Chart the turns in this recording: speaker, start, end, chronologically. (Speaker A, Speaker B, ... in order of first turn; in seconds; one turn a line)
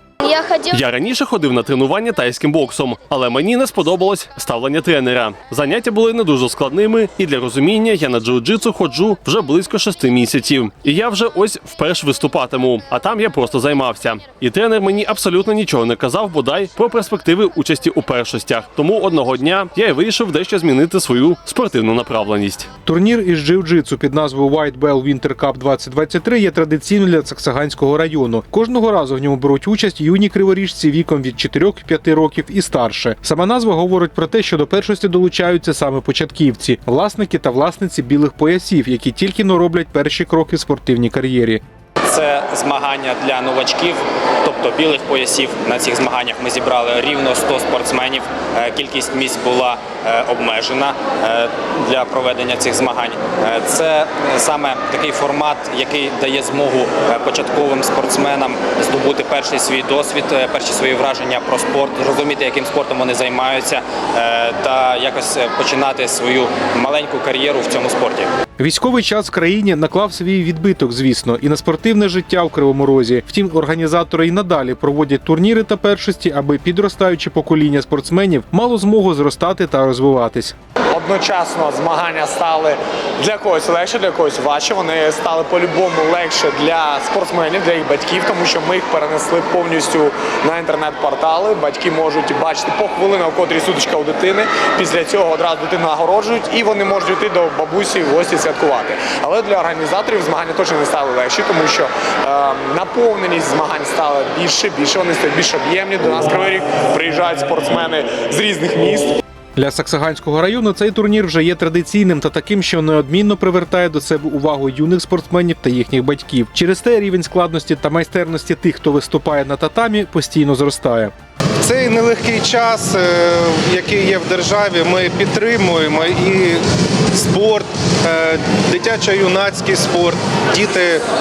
Speaker A: 0.3-22.7
Speaker B: 22.8-41.6
Speaker C: 42.0-68.3
Speaker B: 68.6-80.5
Speaker D: 80.9-109.2
Speaker B: 109.6-121.1
Speaker E: 121.6-131.0